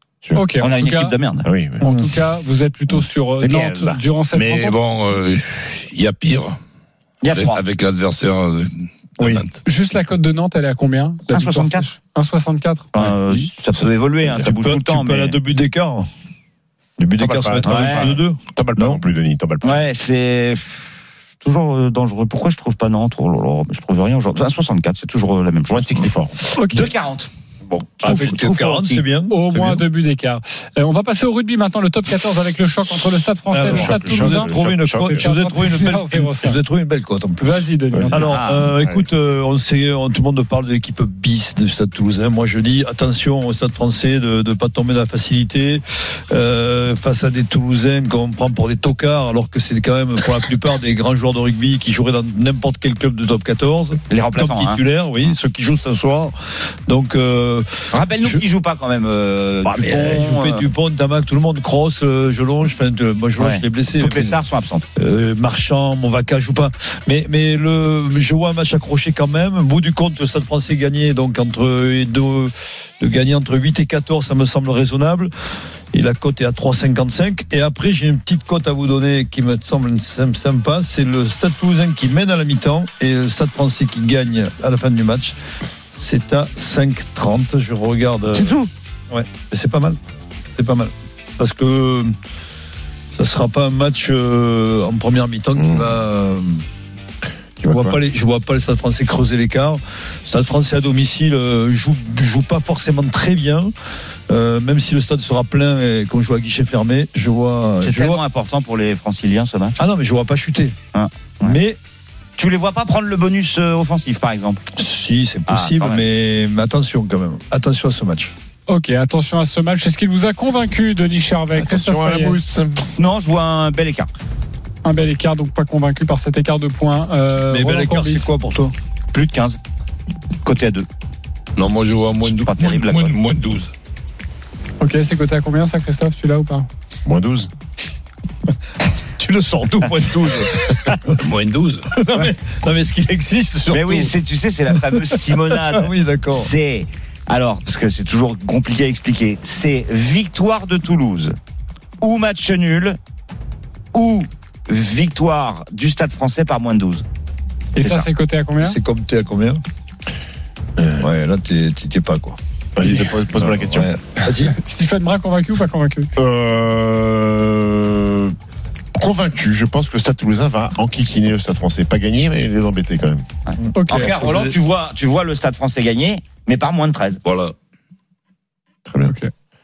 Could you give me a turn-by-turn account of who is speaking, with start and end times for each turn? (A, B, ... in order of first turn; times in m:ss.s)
0:00.4-0:01.2 A
0:00.6-0:01.5 B
0:01.4-0:01.8 C
0:01.8-0:02.1 D
0:01.8-0:04.8 A
0:03.4-0:04.0 C
0:04.3-0:06.6 E
0:07.2-0:07.6 B
0:07.3-0:09.6 E
0:09.2-0:09.4 D
0:09.6-0:13.5 A
0:11.3-0:11.9 B
0:12.9-0:15.4 B
0:14.4-0:16.1 D
0:17.0-0:19.0 D
0:17.2-0:19.9 C
0:17.6-0:18.2 B
0:19.6-0:20.8 B
0:21.4-0:26.1 B
0:25.7-0:26.5 C
0:26.6-0:26.9 A
0:26.6-0:29.0 B
0:28.0-0:29.8 D
0:29.3-0:36.6 A
0:33.5-0:56.3 D
0:33.7-0:35.2 C
0:37.4-0:38.3 A
0:37.9-0:39.0 C
0:38.2-0:38.7 B
0:54.1-0:54.8 B
0:56.9-0:58.4 D
0:57.9-1:00.7 B
0:59.6-1:04.4 D
1:03.4-1:04.9 B
1:05.0-1:15.3 D
1:15.9-1:25.4 D
1:25.9-1:28.6 D
1:28.3-1:28.7 B
1:29.1-1:30.0 D
1:30.6-1:32.1 D
1:33.2-1:36.6 D
1:35.6-1:35.9 C
1:37.6-1:38.0 C
1:37.7-1:43.7 D
1:44.3-1:48.2 D
1:47.8-1:49.8 B
1:49.8-1:50.8 D
1:50.9-1:51.6 B
1:51.4-1:51.8 D
1:52.4-1:54.6 B
1:54.8-1:58.3 D
1:55.5-1:56.1 B
1:58.7-2:02.4 A
2:01.6-2:02.9 C
2:03.0-2:04.1 B
2:04.8-2:08.3 A
2:07.5-2:08.7 D
2:09.1-2:09.6 B
2:10.4-2:10.9 B
2:11.6-2:13.7 E
2:12.2-2:13.2 B
2:14.8-2:16.7 A
2:17.1-2:17.5 C
2:19.2-2:20.7 D
2:21.2-2:21.9 E
2:21.9-2:24.1 D
2:23.7-2:31.4 B
2:24.9-2:26.5 D
2:32.0-2:33.0 B
2:33.9-2:37.0 B
2:37.8-2:38.8 A
2:37.8-2:38.1 B
2:38.6-2:39.6 D
2:40.8-2:41.0 C
2:41.0-2:44.6 D
2:42.8-2:44.3 C
2:44.6-2:46.1 A
2:46.2-2:48.4 C
2:49.0-2:53.2 C
2:53.5-2:57.2 B
2:53.8-2:54.1 A
2:53.9-2:54.6 D
2:57.2-2:57.6 E
2:58.9-2:59.1 C
2:59.0-2:59.3 A